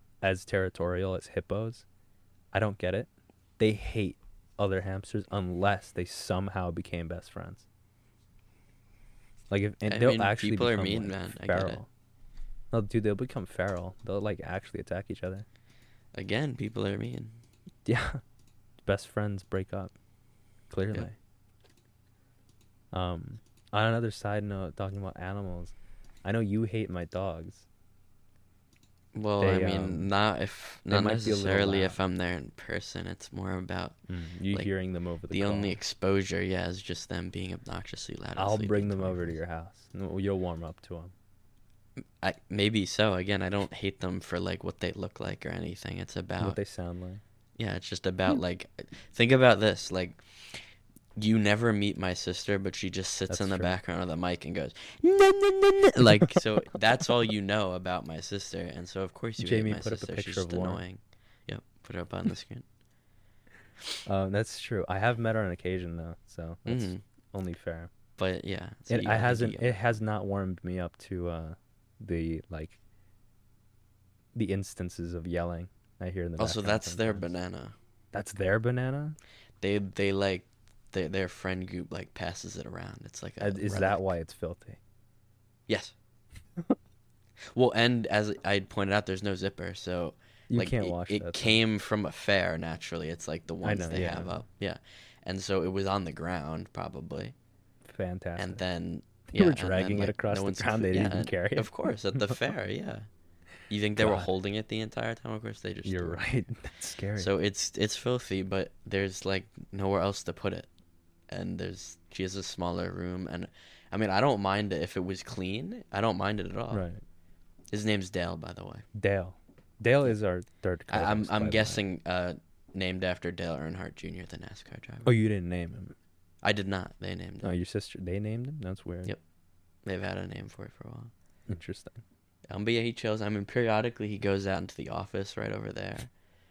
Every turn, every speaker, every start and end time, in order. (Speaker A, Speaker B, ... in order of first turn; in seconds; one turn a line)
Speaker A: 0.2-1.9
Speaker A: 2.5-7.7
Speaker A: 9.5-11.9
Speaker B: 9.8-11.8
Speaker A: 12.7-15.5
Speaker B: 16.1-17.4
Speaker A: 17.9-18.2
Speaker A: 18.8-19.9
Speaker A: 20.7-21.2
Speaker A: 22.9-27.7
Speaker B: 29.1-34.0
Speaker A: 29.4-30.1
Speaker A: 30.9-32.0
Speaker A: 34.1-35.8
Speaker B: 35.3-39.4
Speaker A: 38.4-41.1
Speaker B: 42.2-46.6
Speaker A: 46.4-47.2
Speaker B: 47.6-50.6
Speaker B: 51.2-62.6
Speaker A: 53.3-53.8
Speaker A: 59.4-60.8
Speaker A: 64.1-67.9
Speaker B: 66.7-67.0
Speaker B: 68.2-69.8
Speaker A: 68.9-72.8
Speaker A: 74.3-77.3
Speaker B: 76.4-77.8
Speaker A: 78.1-79.2
Speaker B: 79.6-84.1
Speaker A: 83.4-84.8
Speaker B: 85.7-86.0
Speaker B: 87.5-97.3
Speaker A: 90.5-91.6
Speaker A: 93.6-94.4
Speaker A: 97.9-98.6
Speaker B: 98.4-103.1
Speaker A: 99.3-101.7
Speaker B: 103.7-106.2
Speaker A: 104.0-104.3
Speaker A: 105.8-107.3
Speaker B: 107.2-110.7
Speaker B: 111.3-116.8
Speaker A: 116.7-117.0
Speaker B: 117.7-118.9
Speaker A: 119.0-121.8
Speaker B: 120.9-125.1
Speaker A: 125.0-126.0
Speaker B: 126.4-127.5
Speaker A: 127.4-129.1
Speaker B: 129.8-131.1
Speaker A: 131.5-132.0
Speaker B: 132.5-136.1